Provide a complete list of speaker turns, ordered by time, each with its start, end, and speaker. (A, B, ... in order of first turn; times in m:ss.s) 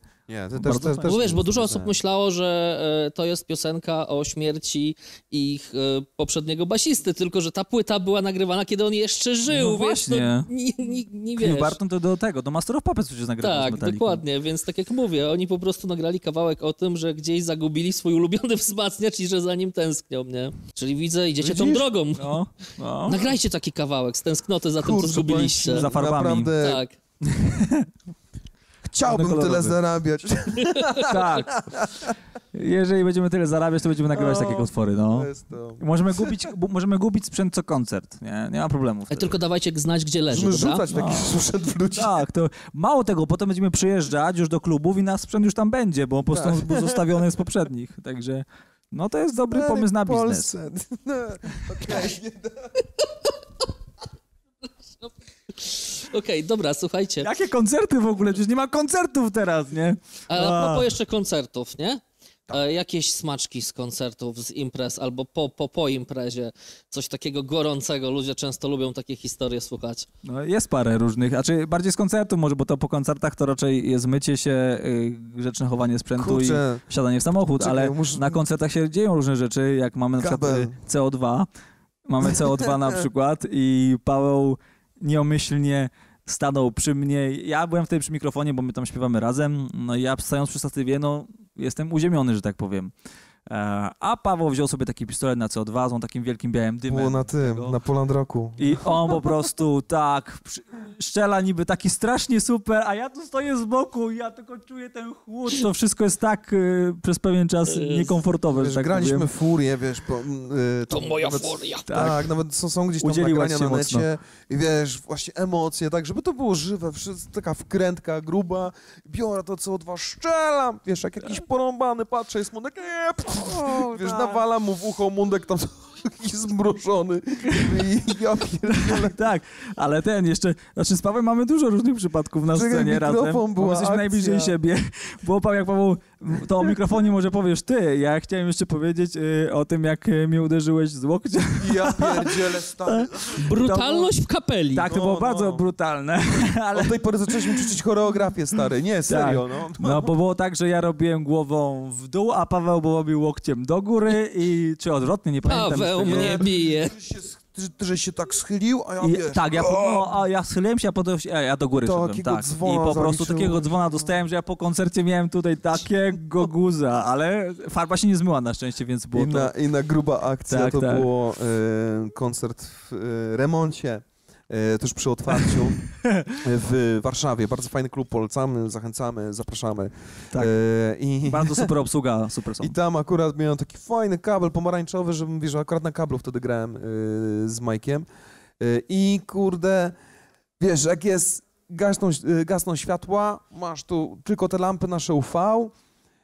0:00.3-0:02.0 A
0:00.6-0:01.2 B
0:01.0-0:11.8 C
0:09.5-0:10.5 B
0:11.4-0:14.2 B
0:13.4-0:22.4 C
0:21.4-0:21.9 A
0:22.2-0:23.3 B
0:23.1-0:25.9 C
0:24.8-0:26.8 A
0:25.7-0:26.5 B
0:26.6-0:27.0 C
0:27.2-0:27.9 B
0:28.8-0:32.2 A
0:29.0-0:29.8 B
0:30.6-0:31.1 C
0:31.0-0:31.6 B
0:32.5-0:39.4 B
0:34.1-0:36.5 A
0:39.1-0:40.8 C
0:40.3-0:42.2 A
0:40.9-0:41.4 B
0:42.0-0:50.5 B
0:46.3-0:47.2 A
0:49.5-0:52.7 A
0:53.0-0:53.7 C
0:55.0-0:57.3 C
0:57.2-1:00.9 B
1:00.3-1:10.1 C
1:10.2-1:21.5 B
1:16.2-1:16.8 A
1:17.6-1:18.4 A
1:20.2-1:20.8 A
1:22.1-1:32.9 B
1:22.2-1:23.1 A
1:33.5-1:37.8 B
1:36.9-1:39.2 A
1:38.6-1:49.3 B
1:47.7-1:48.1 C
1:48.5-2:09.2 A
1:50.9-1:51.9 C
1:51.9-1:52.3 B
1:53.0-1:54.1 B
2:03.5-2:04.4 B
2:07.5-2:07.9 B
2:08.7-2:24.1 B
2:12.5-2:14.6 A
2:21.6-2:23.4 A
2:23.3-2:24.9 C
2:24.7-2:27.8 B
2:24.8-2:25.6 A
2:26.7-2:30.1 A
2:29.1-2:36.4 B
2:35.4-2:37.0 C
2:36.1-2:40.1 A
2:39.0-2:49.5 B
2:41.8-2:44.1 A
2:49.1-2:55.8 A
2:50.5-2:51.1 B
2:55.3-2:56.4 B
2:56.4-3:01.7 A
3:01.2-3:02.8 B
3:02.6-3:08.0 A
3:08.6-3:10.0 A
3:10.6-3:15.8 A